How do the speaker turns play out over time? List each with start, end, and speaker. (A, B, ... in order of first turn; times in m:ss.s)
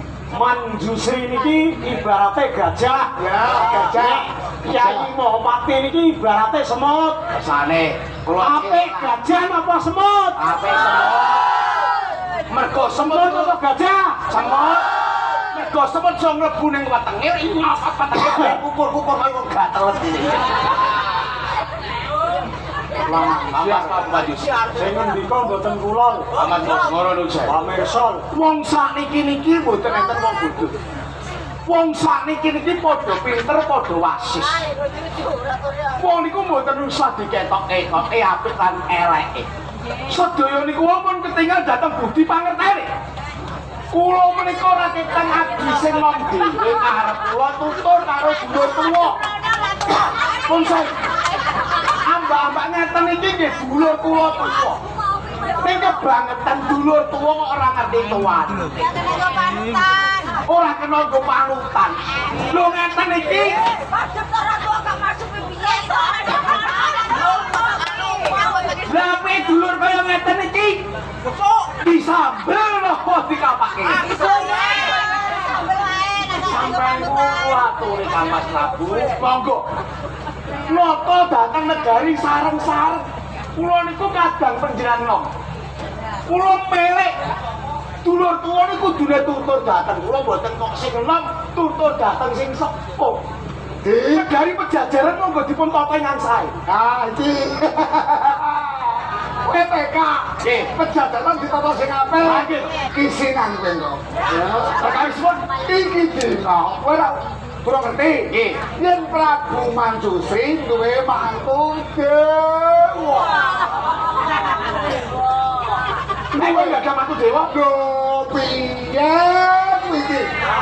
0:00.3-0:03.1 A
0:03.2-0:05.1 B
0:03.9-0:07.2 A
0:07.3-0:09.2 C
0:08.4-0:10.4 A
0:10.4-0:11.6 C
0:12.5-0:13.6 C
0:12.9-0:14.2 A
0:14.3-0:20.6 C
0:18.1-0:18.5 A
0:23.0-0:24.0 B
0:23.5-0:24.6 C
0:24.8-0:26.3 A
0:26.4-0:27.5 C
0:27.4-0:28.2 A
0:28.3-0:30.7 C
0:31.7-0:34.7 C
0:36.0-0:39.5 C
0:40.1-0:42.9 C
0:43.9-0:49.2 C
0:50.4-0:50.9 C
0:52.0-0:54.8 C
0:55.6-0:58.9 C
1:00.4-1:03.6 C
1:08.8-1:10.8 C
1:11.8-1:14.3 C
1:16.3-1:19.6 C
1:20.7-1:23.0 C
1:23.6-1:25.2 C
1:26.3-1:27.1 C
1:28.0-1:33.2 C
1:33.8-1:34.3 B
1:34.0-1:36.5 C
1:36.7-1:53.4 B
1:40.4-1:40.7 C
1:42.2-1:42.7 C
1:44.6-1:45.5 C
1:48.3-1:48.6 C
1:56.3-1:57.5 C
1:56.4-1:56.8 B
1:57.5-2:00.3 B